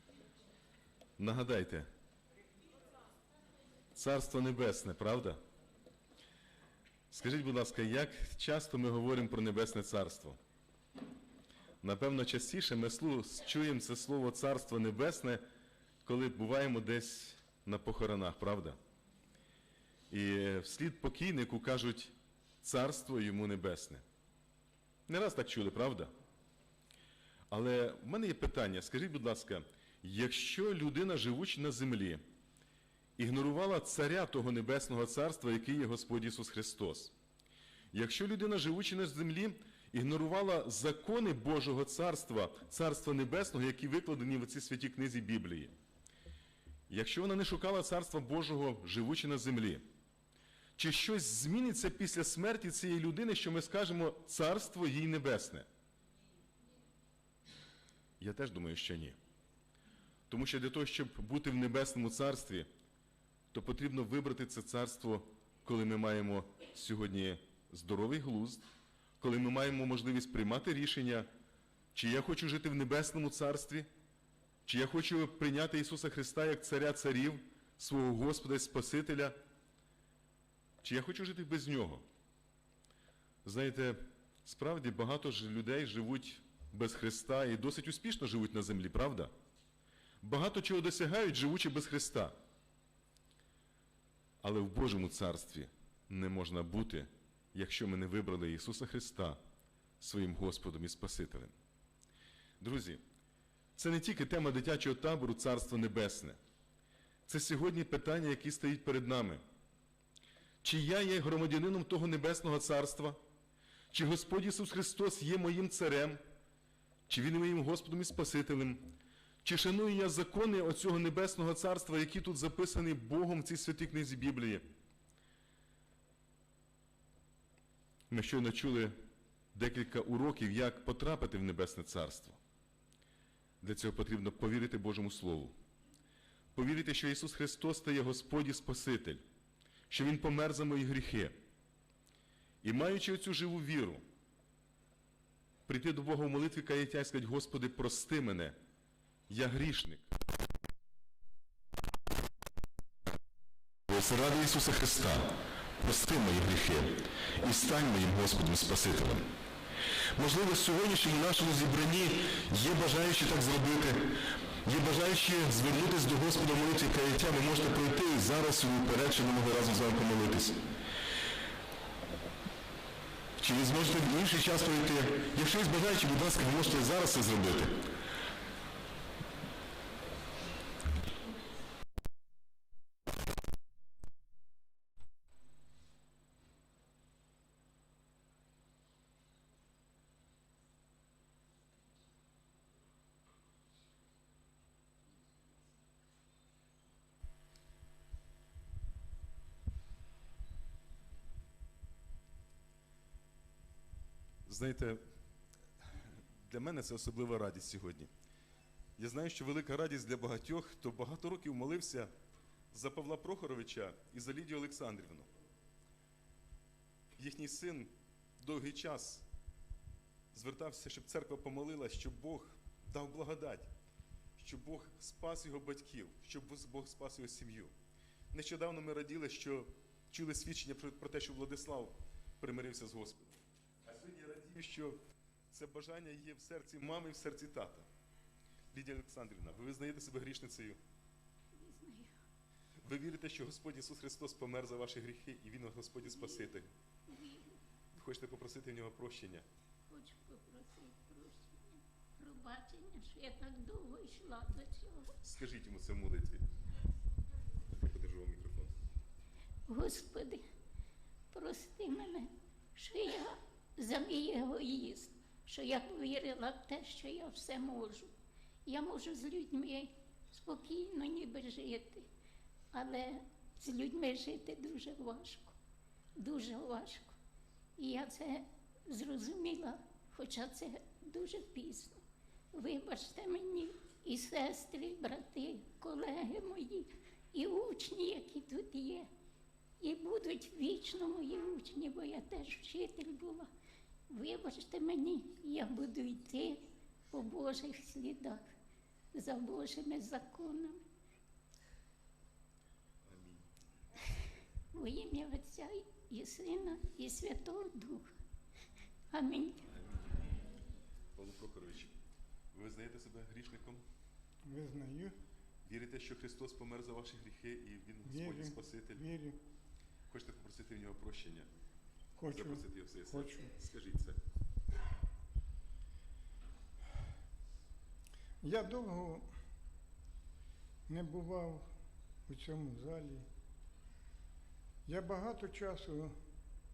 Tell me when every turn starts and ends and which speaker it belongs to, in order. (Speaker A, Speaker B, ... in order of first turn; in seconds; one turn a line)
Speaker A: 1.2-1.9
Speaker A: 3.9-5.4
Speaker A: 7.1-10.4
Speaker A: 11.8-15.4
Speaker A: 16.0-18.8
Speaker A: 20.1-24.0
Speaker A: 25.1-26.1
Speaker A: 27.5-32.2
Speaker A: 33.2-37.1
Speaker A: 37.9-45.7
Speaker A: 46.9-49.8
Speaker A: 50.8-55.7
Speaker A: 58.2-59.2
Speaker A: 60.3-62.7
Speaker A: 63.5-68.6
Speaker A: 69.2-71.3
Speaker A: 71.9-73.9
Speaker A: 74.7-79.3
Speaker A: 80.8-82.0
Speaker A: 83.4-89.3
Speaker A: 90.2-92.3
Speaker A: 94.4-99.4
Speaker A: 100.0-101.5
Speaker A: 102.6-103.0
Speaker A: 103.8-106.4
Speaker A: 107.3-109.4
Speaker A: 110.6-113.2
Speaker A: 113.9-116.2
Speaker A: 117.1-118.9
Speaker A: 119.4-124.7
Speaker A: 128.1-128.9
Speaker A: 129.5-132.4
Speaker A: 133.6-135.5
Speaker A: 136.5-139.2
Speaker A: 139.9-141.3
Speaker A: 142.6-144.0
Speaker A: 145.7-148.6
Speaker A: 149.3-150.1
Speaker A: 153.9-159.3
Speaker A: 160.1-170.6
Speaker A: 173.4-177.8
Speaker A: 204.4-205.0
Speaker A: 205.8-208.1
Speaker A: 209.0-212.1
Speaker A: 212.7-215.3
Speaker A: 217.2-219.2
Speaker A: 220.3-223.7
Speaker A: 224.4-227.7
Speaker A: 228.3-235.0
Speaker A: 235.5-237.9
Speaker A: 238.7-240.8
Speaker B: 241.5-242.1
Speaker A: 242.8-246.7
Speaker B: 246.1-246.5
Speaker B: 247.1-247.6
Speaker A: 247.9-249.4
Speaker B: 249.9-255.1
Speaker A: 255.2-256.4
Speaker A: 257.6-258.7
Speaker B: 259.7-260.4
Speaker B: 261.3-268.1
Speaker B: 268.6-272.1
Speaker B: 272.7-275.5
Speaker B: 276.1-277.1
Speaker B: 277.8-282.0
Speaker B: 282.5-289.1
Speaker B: 289.8-293.5
Speaker B: 294.1-298.4
Speaker B: 299.1-300.8
Speaker A: 303.1-303.4
Speaker B: 304.7-308.1
Speaker B: 309.1-309.6
Speaker A: 309.7-310.3
Speaker A: 311.1-311.9
Speaker A: 312.5-313.8
Speaker C: 314.4-315.1
Speaker A: 315.6-319.0
Speaker C: 318.0-319.4
Speaker A: 320.1-321.5
Speaker C: 322.1-323.5
Speaker A: 322.3-324.2
Speaker C: 328.4-329.3
Speaker C: 330.9-331.6
Speaker C: 332.3-333.2
Speaker C: 334.9-336.1